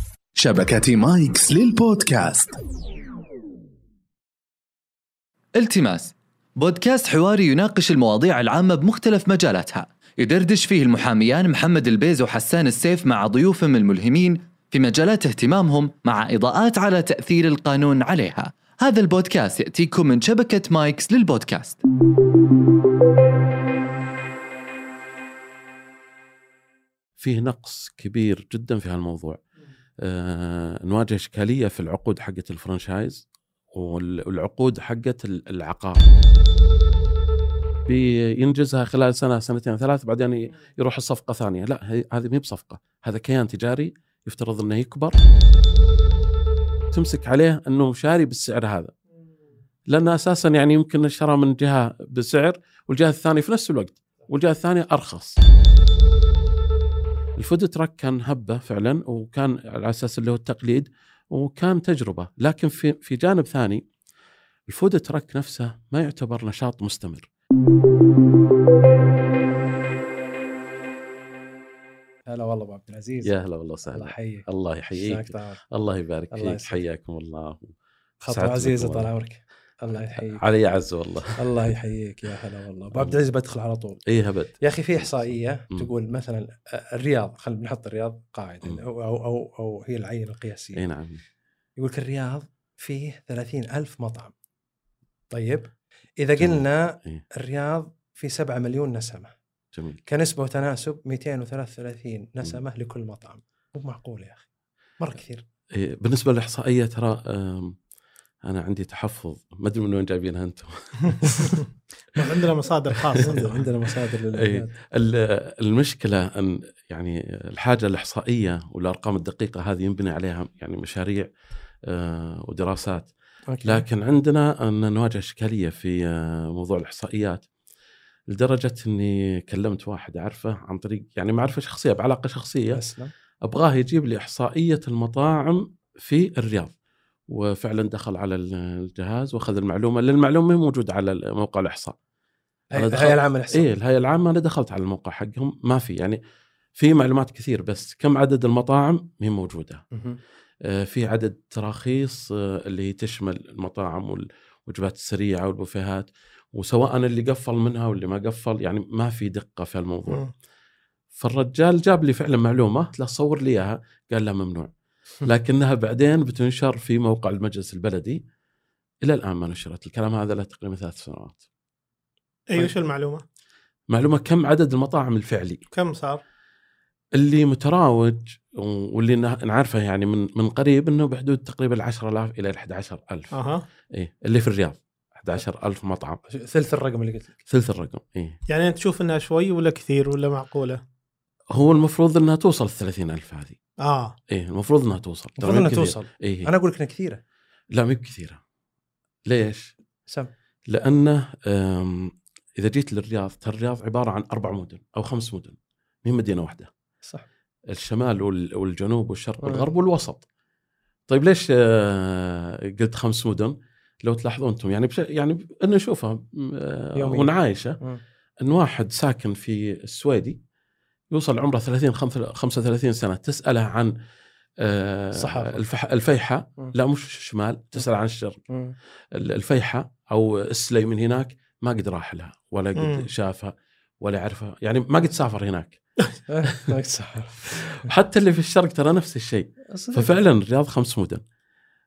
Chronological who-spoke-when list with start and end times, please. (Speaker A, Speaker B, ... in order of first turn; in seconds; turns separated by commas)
Speaker A: 0.4-2.5, Speaker B: 5.6-21.8, Speaker C: 27.2-29.4, Speaker C: 30.0-36.1, Speaker C: 37.9-45.2, Speaker C: 46.9-48.9, Speaker C: 49.9-55.4, Speaker C: 57.4-63.8, Speaker C: 64.7-67.3, Speaker D: 72.3-73.3, Speaker C: 73.2-77.7, Speaker D: 73.9-75.6, Speaker D: 76.3-76.8, Speaker D: 78.2-80.5, Speaker C: 78.3-79.1, Speaker C: 80.2-81.4, Speaker D: 81.4-84.0, Speaker C: 84.1-85.9, Speaker D: 84.6-90.8, Speaker C: 90.8-91.2, Speaker D: 91.8-94.3, Speaker D: 95.3-99.3, Speaker C: 96.4-97.2, Speaker C: 99.8-100.0, Speaker D: 100.1-104.4, Speaker D: 105.0-105.4, Speaker C: 105.7-107.8, Speaker C: 108.4-111.6, Speaker E: 111.2-111.6, Speaker E: 112.2-113.7, Speaker C: 113.0-113.2, Speaker D: 113.2-114.7, Speaker C: 114.3-121.3, Speaker C: 121.9-123.1, Speaker D: 123.5-123.8, Speaker C: 123.6-127.5, Speaker C: 128.3-132.8, Speaker D: 132.7-133.1, Speaker C: 133.4-136.7, Speaker C: 137.3-141.9, Speaker D: 142.7-143.7, Speaker C: 142.8-146.2, Speaker C: 146.8-149.8, Speaker D: 149.9-150.2, Speaker C: 150.6-160.2, Speaker C: 161.1-164.7, Speaker C: 165.2-168.2, Speaker C: 169.0-171.4, Speaker E: 172.5-173.2, Speaker C: 173.9-175.6, Speaker E: 175.7-176.2, Speaker C: 177.2-183.3, Speaker E: 183.3-183.7, Speaker C: 183.9-186.2, Speaker D: 186.3-187.4, Speaker C: 187.5-188.4, Speaker E: 188.5-190.8, Speaker C: 191.5-193.6, Speaker E: 193.8-194.2, Speaker C: 194.3-196.5, Speaker D: 195.4-197.2, Speaker C: 197.7-198.4, Speaker C: 199.3-199.7, Speaker C: 200.7-206.7, Speaker C: 207.7-210.2, Speaker D: 209.4-209.7, Speaker C: 211.1-217.8, Speaker D: 217.0-218.0, Speaker C: 218.4-220.4, Speaker C: 221.1-223.9, Speaker C: 224.6-228.4, Speaker D: 225.1-225.6, Speaker D: 228.5-228.8, Speaker C: 229.1-235.8, Speaker E: 232.8-233.1, Speaker D: 236.3-237.8, Speaker C: 237.5-241.2, Speaker D: 239.7-240.1